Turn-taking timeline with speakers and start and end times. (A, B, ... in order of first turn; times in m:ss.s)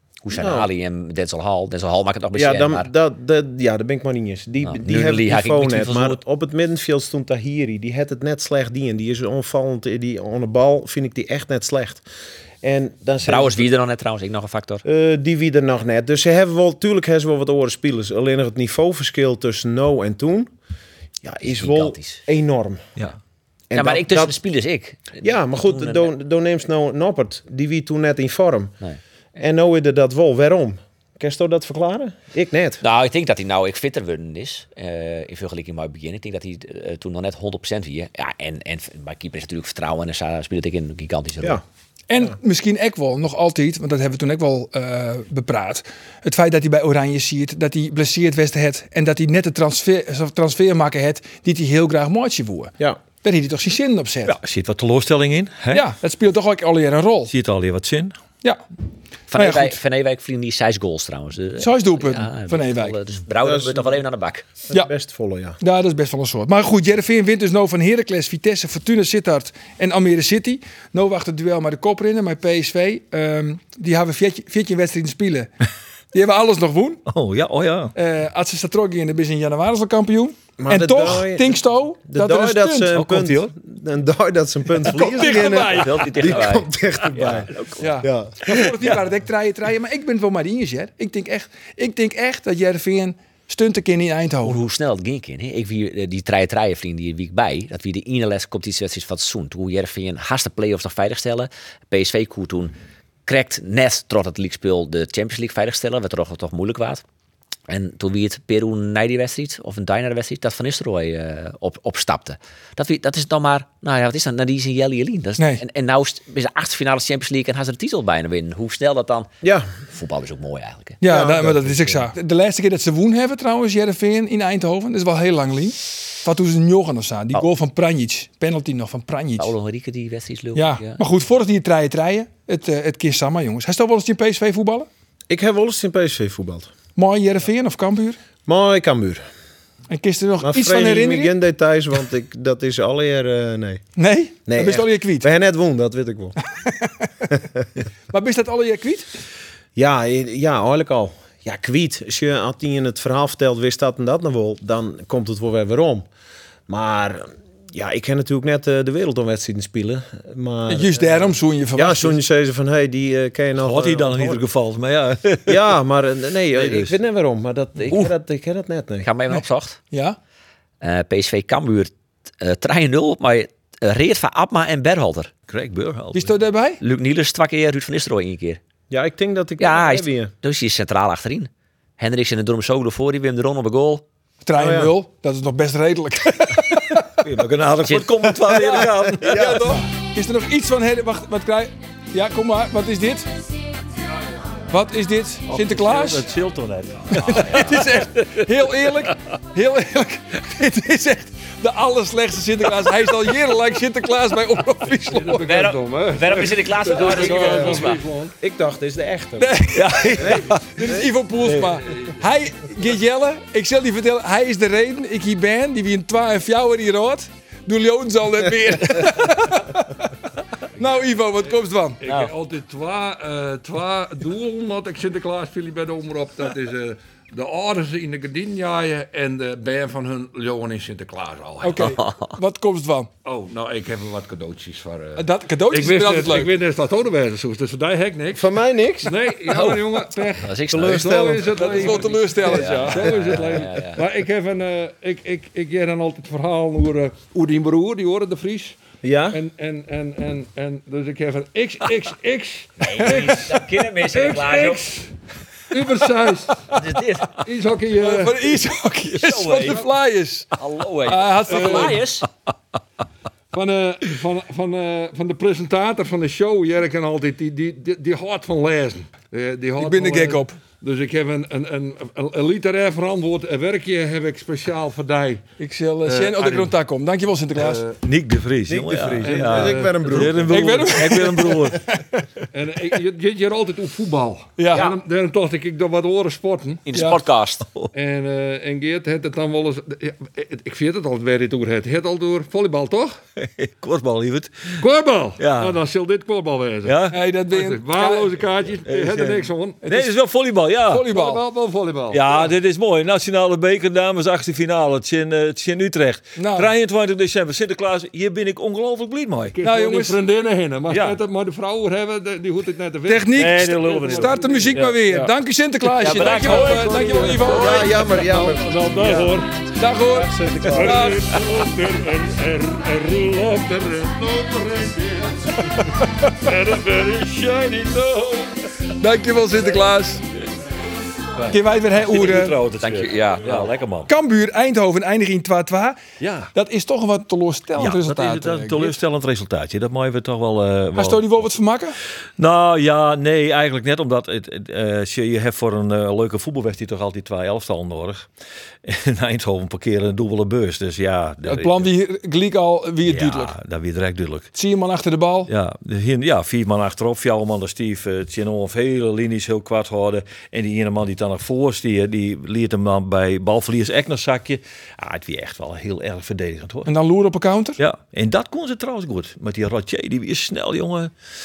0:00.2-0:02.9 A
0:00.3-0:00.7 B
0:02.3-0:12.0 B
0:04.6-0:06.2 A
0:12.6-0:13.7 B
0:13.2-0:14.8 A
0:14.8-0:20.5 B
0:21.2-0:22.8 B
0:21.4-0:22.2 A
0:23.7-0:24.3 B
0:23.7-0:26.1 A
0:25.2-0:28.8 B
0:29.4-0:32.8 B
0:32.8-0:41.6 A
0:42.1-0:54.4 C
0:54.2-0:55.9 D
0:55.7-0:57.3 C
0:57.3-0:58.1 D
0:59.3-1:04.4 A
0:59.3-0:59.8 C
1:01.6-1:03.0 C
1:03.4-1:03.9 B
1:04.7-1:05.6 B
1:05.6-1:15.5 C
1:16.1-1:17.0 C
1:17.1-1:17.9 D
1:17.9-1:22.9 C
1:20.6-1:28.7 B
1:22.9-1:23.5 D
1:24.8-1:26.4 C
1:25.7-1:27.8 A
1:27.2-1:27.6 D
1:27.8-1:34.6 C
1:28.5-1:29.0 D
1:34.4-1:42.7 A
1:43.2-1:47.0 A
1:47.7-1:59.3 A
1:59.4-1:59.7 B
1:59.9-2:01.0 A
2:01.0-2:09.5 C
2:01.1-2:02.0 B
2:09.4-2:11.0 A
2:10.5-2:14.9 C
2:15.3-2:16.7 B
2:17.0-2:18.2 C
2:18.4-2:19.2 B
2:19.9-2:21.3 C
2:20.4-2:23.8 B
2:24.0-2:25.3 C
2:24.5-2:26.4 B
2:26.5-2:27.1 C
2:28.1-2:29.1 C
2:29.7-2:36.0 B
2:36.7-2:44.4 B
2:40.7-2:42.2 C
2:43.6-2:45.7 D
2:45.4-2:49.1 B
2:46.5-2:47.0 D
2:49.0-2:49.8 A
2:49.3-2:50.2 C
2:50.8-2:55.3 A
2:55.5-2:56.3 D
2:56.1-2:56.8 C
2:56.8-2:58.6 A
2:58.9-3:00.3 B
2:59.6-3:04.0 A
3:04.4-3:07.2 C
3:04.6-3:04.9 B
3:07.2-3:09.6 D
3:07.8-3:08.8 A
3:08.4-3:09.8 B
3:09.2-3:13.3 C
3:14.7-3:16.2 C
3:15.5-3:19.1 D
3:17.1-3:25.4 C
3:17.4-3:17.8 A
3:25.0-3:28.3 E
3:25.4-3:28.0 A
3:27.0-3:29.5 B
3:29.4-3:40.0 C
3:29.7-3:30.7 D
3:30.2-3:31.0 B
3:31.8-3:32.2 E
3:40.8-3:42.0 C
3:42.0-3:51.9 E
3:42.0-3:42.3 A
3:51.6-3:53.1 C
3:51.8-3:52.3 A
3:53.2-3:58.4 E
3:55.2-3:56.5 C
3:58.3-3:59.2 B
3:59.0-4:08.8 E
4:00.4-4:01.7 A
4:00.7-4:01.6 B
4:01.6-4:03.6 C
4:02.4-4:04.0 A
4:09.0-4:09.4 B
4:09.3-4:15.1 E
4:12.8-4:14.8 A
4:15.7-4:16.7 E
4:16.7-4:17.4 A
4:17.4-4:18.6 E
4:18.0-4:20.5 C
4:19.2-4:19.8 A
4:19.3-4:19.6 D
4:20.5-4:22.3 A
4:21.0-4:22.0 C
4:21.5-4:22.0 E
4:23.5-4:35.4 E
4:29.8-4:30.5 C
4:35.6-4:37.8 C
4:36.0-4:36.7 E
4:37.6-4:38.0 E
4:38.0-4:41.8 D
4:38.7-4:41.0 B
4:39.2-4:40.5 E
4:40.5-4:42.2 C
4:42.5-4:46.8 E
4:44.6-4:44.9 C
4:46.8-4:47.7 A
4:46.9-4:47.2 C
4:47.9-4:53.2 E
4:53.4-4:54.8 D
4:54.8-4:59.8 E
4:55.4-4:55.8 D
4:56.8-4:57.2 D
4:57.1-4:58.3 C
4:58.8-5:01.1 D
4:59.8-5:00.1 C
5:00.9-5:01.4 C
5:01.1-5:02.5 E
5:02.1-5:09.6 D
5:06.4-5:06.7 C
5:09.5-5:14.8 E
5:09.6-5:10.2 C
5:10.9-5:11.2 D
5:13.1-5:17.9 C
5:13.3-5:15.3 D
5:16.0-5:19.6 E
5:16.0-5:16.8 D
5:16.0-5:16.6 A
5:17.4-5:19.2 B
5:19.8-5:21.3 C
5:20.1-5:21.2 B
5:20.6-5:28.7 E
5:25.8-5:26.3 C
5:29.0-5:30.2 C
5:31.5-5:32.5 C
5:32.0-5:34.1 D
5:32.8-5:33.7 A
5:34.1-5:36.0 C
5:36.2-5:36.5 D
5:36.5-5:39.0 C
5:37.8-5:41.5 D
5:41.0-5:42.0 C
5:42.4-5:48.3 D
5:48.8-5:51.9 D
5:51.4-5:53.5 C
5:53.0-5:54.5 D
5:54.5-5:55.5 C
5:55.5-6:06.9 D
6:06.8-6:07.8 C
6:07.8-6:11.1 D